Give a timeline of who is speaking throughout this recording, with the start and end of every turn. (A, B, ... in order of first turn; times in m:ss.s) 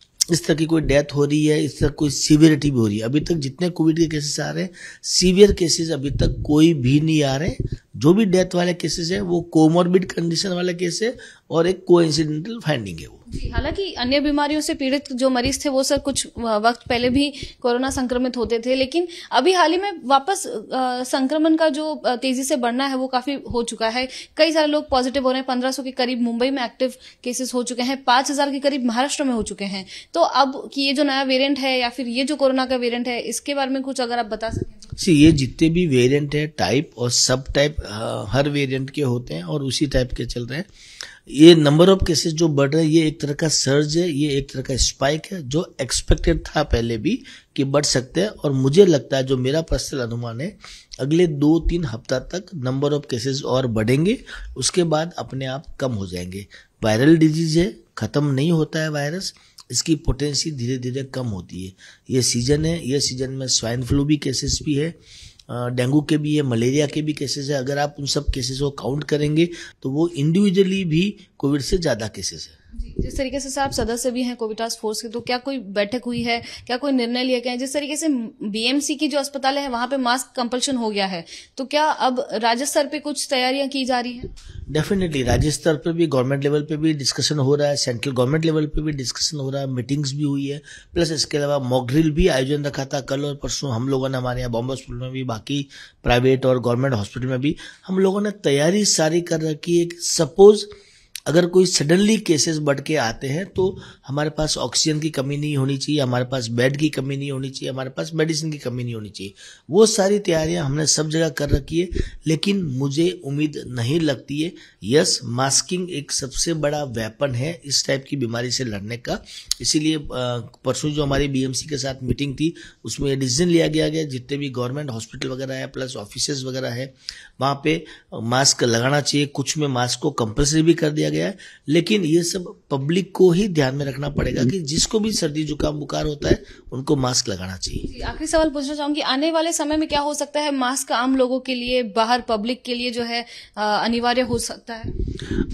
0:00.3-0:13.2 A
0:13.3-0:34.9 B
0:35.0-0:40.7 A
0:41.3-1:05.0 A
1:05.5-1:12.6 A
1:12.8-1:24.3 B
1:24.7-1:40.7 A
1:41.3-2:17.9 A
2:17.8-2:24.9 B